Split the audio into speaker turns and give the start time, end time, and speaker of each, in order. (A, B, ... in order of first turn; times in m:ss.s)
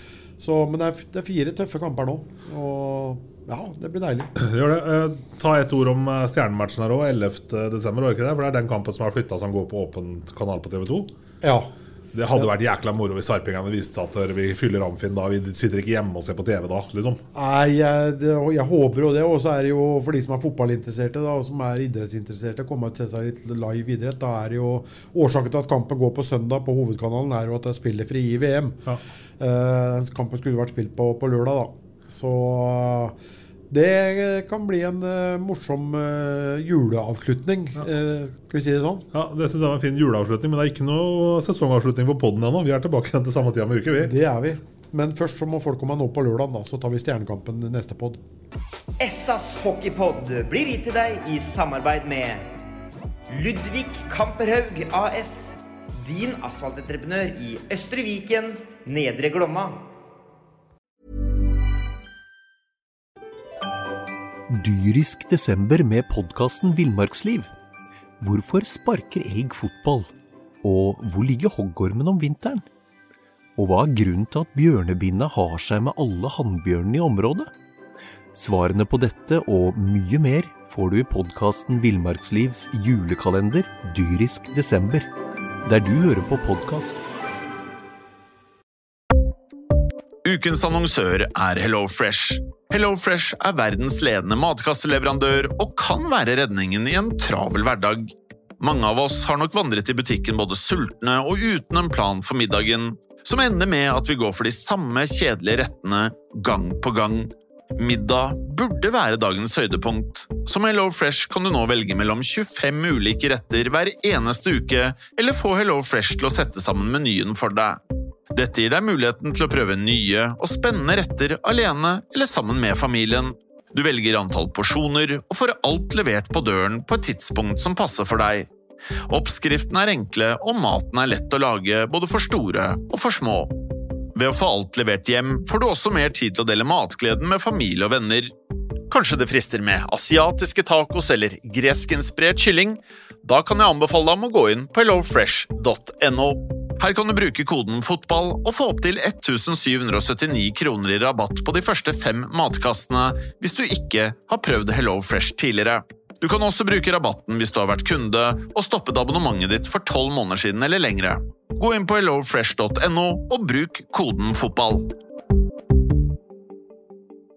0:00.4-0:04.3 A
0:04.4-0:11.1 B
0:11.4-0:11.7 A
0:12.1-0:17.2 B
0:17.3-0:28.8 A
0:29.4-0:33.1 A
0:33.7-0:39.0 A
0:39.1-0:44.1 B
0:44.0-0:48.2 A
0:49.0-0:52.4 C
0:53.3-0:59.8 C
1:04.5-1:07.5 D
1:08.2-1:10.1 D
1:10.6-1:12.6 D
1:13.6-1:17.5 D
1:18.3-1:25.1 D
1:25.6-1:27.1 D
1:30.2-1:57.8 E
1:58.3-2:08.5 E
2:09.1-2:13.5 E
2:14.1-2:18.3 E
2:18.9-2:44.9 E